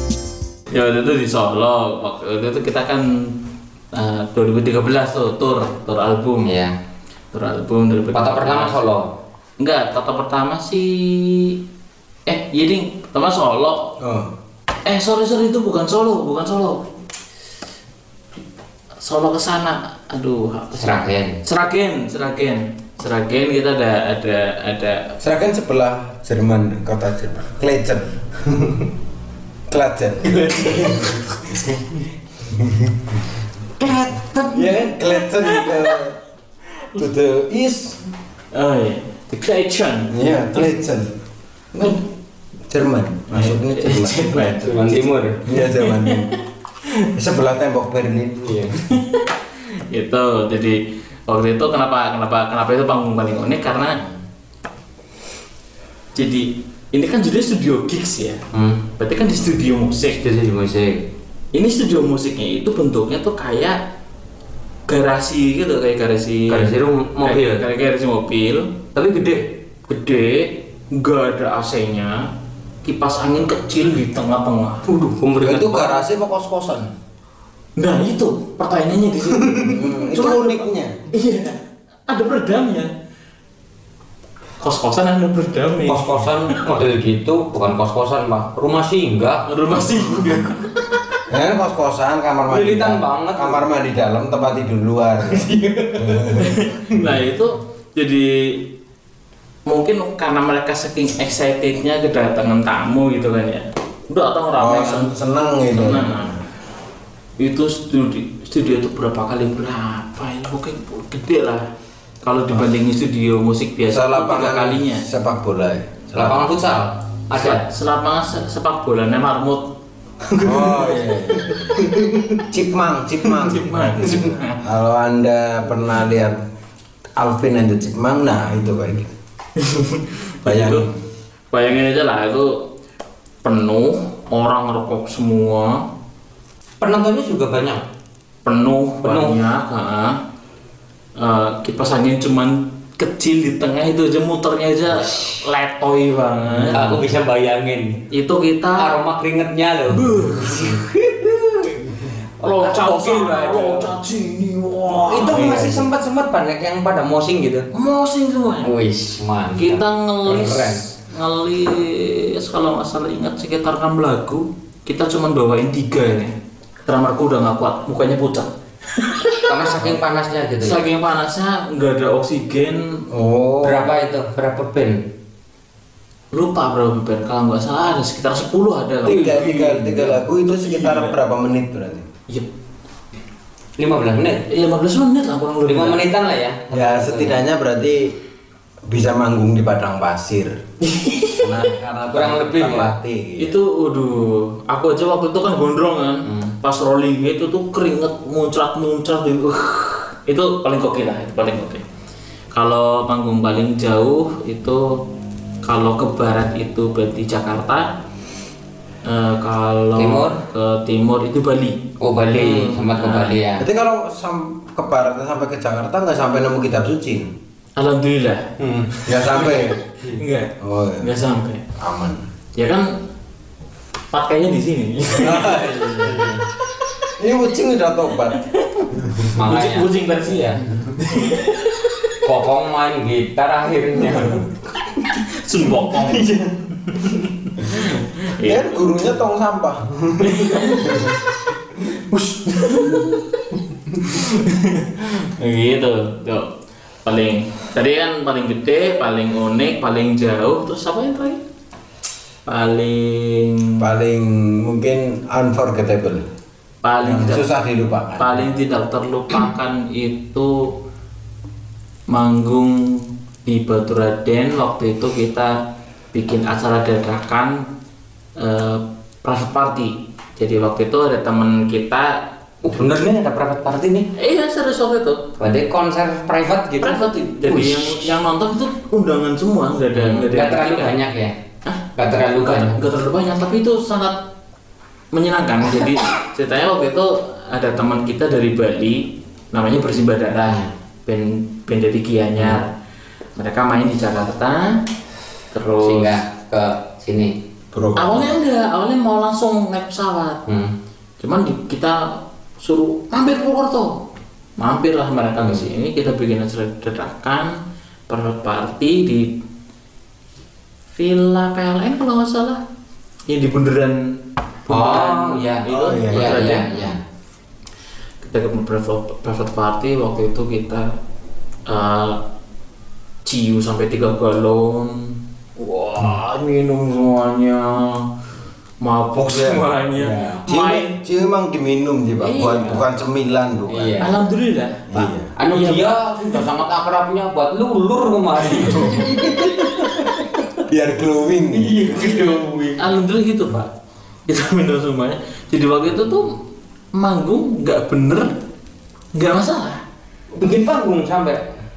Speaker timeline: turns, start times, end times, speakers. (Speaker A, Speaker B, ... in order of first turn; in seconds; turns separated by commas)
Speaker A: 0.7-3.3, Speaker A: 3.9-6.5, Speaker B: 6.5-6.8, Speaker A: 7.3-8.8, Speaker B: 8.1-9.1, Speaker A: 9.6-11.6, Speaker A: 12.2-13.9, Speaker C: 14.0-14.3, Speaker A: 14.8-16.9, Speaker A: 19.0-25.1, Speaker B: 20.8-21.4, Speaker C: 25.2-28.9, Speaker C: 29.7-33.3, Speaker A: 30.5-31.2, Speaker B: 33.8-34.7, Speaker C: 34.5-36.2, Speaker C: 36.9-38.0, Speaker A: 38.5-40.1, Speaker C: 40.1-41.1, Speaker C: 41.7-42.0, Speaker C: 42.7-44.9, Speaker A: 43.3-45.0, Speaker B: 44.6-45.4, Speaker C: 45.4-46.3, Speaker A: 45.5-47.1, Speaker C: 47.1-48.6, Speaker B: 48.4-48.8, Speaker A: 48.8-54.0, Speaker A: 56.1-58.4, Speaker B: 58.5-58.8, Speaker A: 59.0-60.2, Speaker B: 60.2-61.0, Speaker A: 61.5-63.8, Speaker A: 64.9-68.7, Speaker B: 66.5-67.6, Speaker B: 68.9-69.5, Speaker A: 69.9-72.3, Speaker A: 72.8-74.8, Speaker B: 74.8-76.1, Speaker C: 75.4-76.9, Speaker A: 77.8-82.9, Speaker C: 79.6-80.9, Speaker A: 84.6-86.1, Speaker B: 85.8-89.5, Speaker A: 89.5-90.9, Speaker C: 91.3-97.1, Speaker B: 92.5-93.6, Speaker A: 95.6-98.6, Speaker A: 99.7-105.1, Speaker C: 104.6-106.4, Speaker A: 105.7-106.3, Speaker A: 107.4-111.7, Speaker A: 112.2-115.0, Speaker C: 113.9-116.5, Speaker B: 116.2-117.6, Speaker A: 117.3-119.7, Speaker C: 120.4-126.4, Speaker A: 120.4-122.4, Speaker A: 123.2-124.6, Speaker C: 127.2-129.1, Speaker A: 129.6-130.8, Speaker C: 130.4-131.0, Speaker A: 131.5-132.6, Speaker A: 133.4-135.8, Speaker B: 136.8-137.8, Speaker A: 138.4-140.2, Speaker B: 139.0-139.3, Speaker A: 141.2-147.1, Speaker B: 145.0-145.4, Speaker B: 146.7-148.1, Speaker A: 148.1-148.9, Speaker B: 148.7-151.7, Speaker A: 149.9-150.8, Speaker B: 152.4-153.9, Speaker A: 152.4-155.9, Speaker B: 155.1-157.7, Speaker A: 157.7-158.7, Speaker B: 158.6-160.8, Speaker A: 159.6-169.7, Speaker B: 169.4-170.8, Speaker A: 170.6-173.0, Speaker C: 173.1-173.9, Speaker B: 173.6-175.0, Speaker A: 176.3-181.1, Speaker C: 179.0-182.1, Speaker B: 183.8-184.4, Speaker A: 184.5-186.0, Speaker B: 185.7-187.4, Speaker C: 186.7-188.1, Speaker C: 188.9-190.6, Speaker A: 190.8-191.4, Speaker C: 191.4-193.6, Speaker B: 192.1-192.9, Speaker A: 193.4-201.8, Speaker B: 196.3-196.5, Speaker A: 202.5-205.0, Speaker A: 205.6-207.9, Speaker A: 209.0-211.8, Speaker B: 209.9-210.4, Speaker B: 212.0-213.7, Speaker C: 212.4-212.8, Speaker A: 212.4-213.4, Speaker C: 213.6-217.3, Speaker A: 217.8-218.5, Speaker B: 218.6-219.4, Speaker C: 219.1-219.8, Speaker A: 219.2-221.7, Speaker C: 220.6-221.1, Speaker C: 221.8-222.3, Speaker A: 222.6-222.9, Speaker A: 224.1-226.4, Speaker C: 225.2-226.4, Speaker C: 227.0-228.4, Speaker A: 228.5-228.8, Speaker C: 228.9-229.3, Speaker A: 229.3-231.8, Speaker B: 229.3-230.6, Speaker B: 232.2-234.5, Speaker A: 234.1-234.4, Speaker A: 234.9-238.8, Speaker C: 238.4-241.2, Speaker A: 240.2-241.1, Speaker A: 241.9-243.3, Speaker A: 244.0-246.5, Speaker A: 247.0-251.4, Speaker A: 252.5-253.8, Speaker C: 253.8-256.2, Speaker A: 256.8-257.4, Speaker C: 257.0-258.5, Speaker A: 258.2-260.7, Speaker A: 262.1-265.6, Speaker A: 266.1-267.6, Speaker A: 268.4-272.2, Speaker B: 272.6-274.1, Speaker A: 274.1-275.2, Speaker B: 275.4-278.0, Speaker A: 276.8-281.0, Speaker B: 279.9-281.3, Speaker B: 281.9-282.8, Speaker A: 282.4-284.2, Speaker A: 285.1-292.7, Speaker A: 293.3-294.8, Speaker A: 295.5-296.2, Speaker B: 295.8-297.3, Speaker C: 297.7-298.4, Speaker A: 297.9-300.4, Speaker B: 300.4-300.7, Speaker A: 301.2-304.0, Speaker A: 304.6-307.6, Speaker B: 305.4-305.7, Speaker A: 308.1-309.3, Speaker A: 310.9-312.6, Speaker A: 313.3-316.9, Speaker B: 314.7-317.0, Speaker C: 315.6-316.5, Speaker A: 318.2-320.9, Speaker A: 321.7-322.2, Speaker A: 323.2-328.1, Speaker A: 328.8-331.0, Speaker C: 329.1-334.1, Speaker A: 332.2-332.9, Speaker B: 333.7-334.1, Speaker A: 334.0-336.4, Speaker C: 334.9-335.3, Speaker B: 335.4-339.6, Speaker A: 338.5-339.0, Speaker C: 338.9-339.5, Speaker A: 340.0-340.4, Speaker C: 340.6-342.3, Speaker A: 341.6-343.7, Speaker B: 341.9-342.7, Speaker A: 344.2-346.3, Speaker A: 346.9-348.3, Speaker A: 349.1-349.8, Speaker B: 350.4-351.4